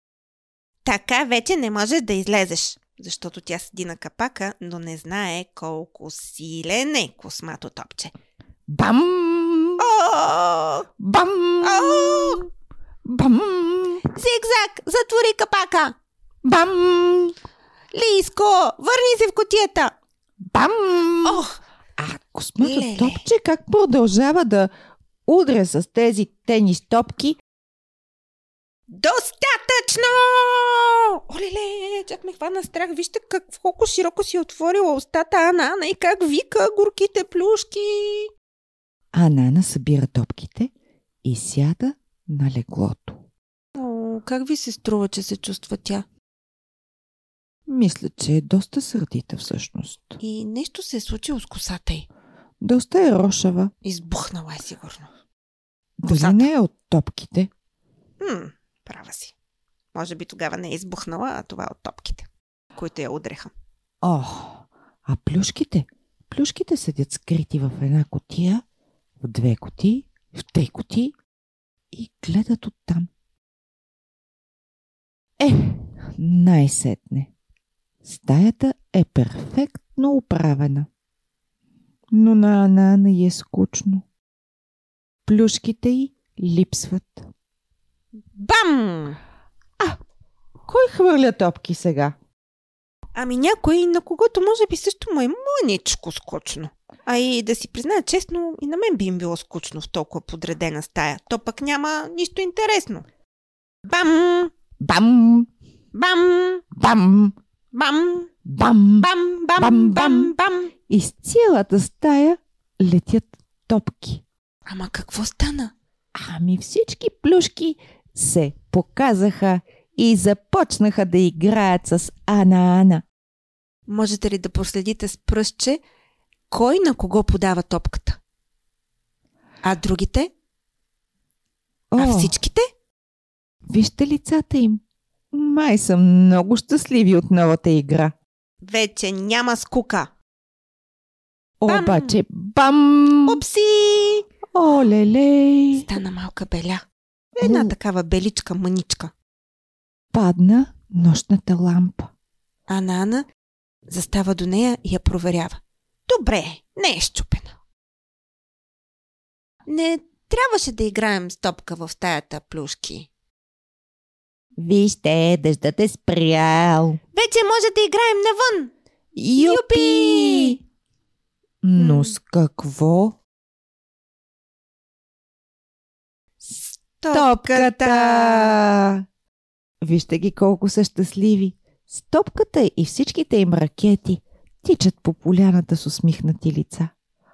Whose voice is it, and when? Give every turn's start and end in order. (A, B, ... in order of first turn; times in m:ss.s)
0:00.8-0:08.1 A
0:08.7-0:09.9 B
0:09.8-0:10.9 A
0:11.0-0:12.4 B
0:11.6-0:12.5 A
0:13.0-0:14.0 B
0:14.0-0:16.0 A
0:16.4-0:17.4 B
0:17.9-0:20.0 A
0:20.5-0:21.4 B
0:21.2-0:21.6 A
0:22.0-0:24.7 B
0:22.6-0:23.2 A
0:25.3-0:27.4 B
0:28.9-0:38.3 A
0:39.1-0:40.7 B
0:41.2-0:43.2 B
0:43.8-0:46.1 A
0:47.7-0:50.2 B
0:50.2-0:52.1 A
0:52.6-0:53.7 B
0:53.8-0:55.1 A
0:56.0-0:57.5 B
0:56.1-0:56.5 A
0:58.2-0:59.3 A
0:59.9-1:03.5 A
1:04.0-1:08.6 B
1:09.2-1:11.1 B
1:11.9-1:13.1 B
1:15.4-1:17.3 B
1:18.0-1:20.9 B
1:22.1-1:24.1 B
1:25.3-1:27.3 B
1:28.3-1:29.2 A
1:30.7-1:32.2 B
1:33.2-1:43.0 A
1:43.8-1:44.5 A
1:44.8-1:45.5 B
1:45.9-1:46.6 A
1:46.8-1:47.4 B
1:47.7-1:48.3 A
1:48.5-1:50.3 B
1:49.0-1:50.7 A
1:50.9-1:54.2 B
1:54.7-1:55.7 A
1:56.2-2:03.0 B
2:03.9-2:05.8 A
2:06.5-2:08.2 A
2:09.6-2:10.3 A
2:11.9-2:12.3 B
2:12.0-2:12.6 A
2:13.7-2:14.8 B
2:15.3-2:18.1 B
2:18.6-2:20.1 A
2:21.6-2:23.4 B
2:21.7-2:22.2 A
2:23.3-2:24.3 A
2:24.5-2:25.9 B
2:25.7-2:26.8 A
2:27.4-2:29.1 A
2:27.4-2:27.8 B
2:30.1-2:32.1 B
2:32.7-2:33.3 A
2:33.9-2:37.6 A
2:39.7-2:43.1 A
2:44.6-2:47.0 B
2:47.1-2:48.7 A
2:49.2-2:50.6 B
2:49.4-2:50.6 A
2:51.6-2:53.2 B
2:51.8-2:52.2 A
2:56.5-2:58.6 A
2:57.1-2:59.0 B
2:59.8-3:06.9 B